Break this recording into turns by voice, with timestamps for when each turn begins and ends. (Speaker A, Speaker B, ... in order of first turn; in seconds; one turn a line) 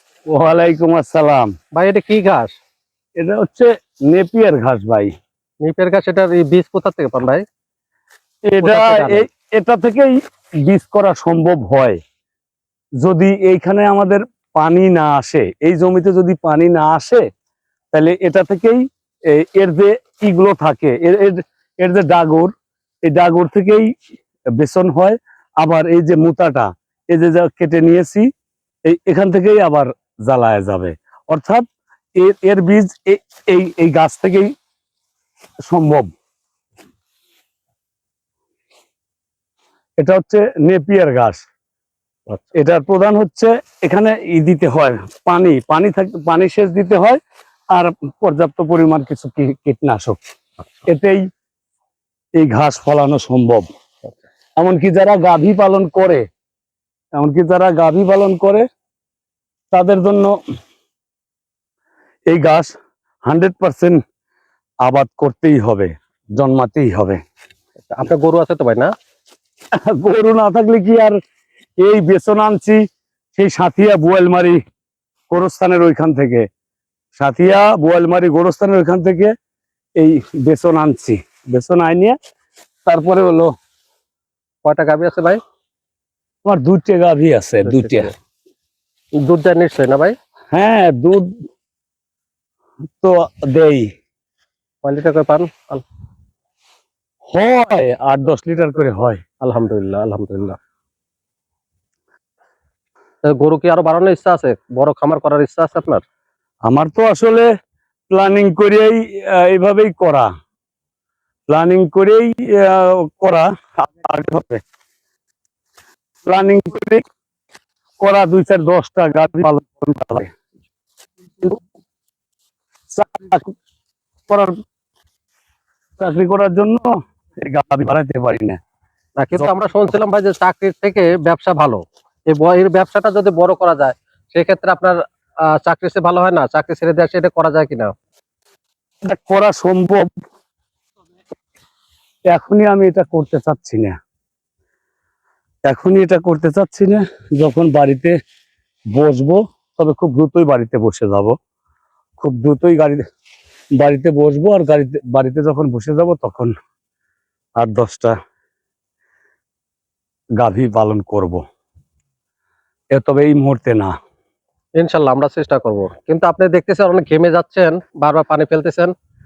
Speaker A: 0.3-1.5
Speaker B: 1.8-2.5
Speaker A: 3.2-5.1
Speaker B: 5.6-7.4
Speaker A: 8.5-10.1
Speaker B: 8.6-9.3
Speaker A: 10.7-12.0
Speaker A: 13.0-17.2
Speaker A: 17.9-22.5
Speaker A: 23.1-23.9
Speaker A: 24.6-28.3
Speaker A: 28.9-31.6
Speaker A: 32.2-34.5
Speaker A: 35.7-36.1
Speaker A: 40.0-41.4
Speaker A: 42.5-47.2
Speaker A: 47.7-50.2
Speaker A: 50.9-51.2
Speaker A: 52.4-53.7
Speaker A: 54.6-56.2
Speaker A: 57.2-58.6
Speaker A: 59.7-60.3
Speaker A: 62.3-62.7
Speaker A: 63.3-64.0
Speaker A: 64.8-67.2
Speaker B: 67.9-68.9
Speaker A: 69.8-71.2
Speaker A: 71.8-72.8
Speaker A: 73.3-74.6
Speaker A: 75.3-76.4
Speaker A: 77.2-79.3
Speaker A: 80.0-82.2
Speaker A: 82.8-83.5
Speaker B: 84.6-85.4
Speaker A: 86.4-88.1
Speaker B: 87.6-88.1
Speaker B: 89.2-90.1
Speaker A: 90.5-91.3
Speaker A: 93.0-93.9
Speaker B: 94.8-95.8
Speaker A: 97.3-99.2
Speaker B: 99.4-100.6
Speaker B: 103.2-106.0
Speaker A: 106.7-107.5
Speaker A: 108.1-110.3
Speaker A: 111.5-114.6
Speaker A: 116.3-117.0
Speaker A: 118.0-120.3
Speaker A: 122.9-123.5
Speaker A: 124.3-124.5
Speaker A: 126.0-128.6
Speaker B: 129.2-137.9
Speaker A: 139.1-140.1
Speaker A: 142.3-144.0
Speaker A: 145.7-148.1
Speaker A: 148.9-151.3
Speaker A: 152.2-153.0
Speaker A: 153.8-156.5
Speaker A: 157.6-158.1
Speaker A: 160.4-161.4
Speaker A: 162.9-163.9
Speaker B: 164.8-168.9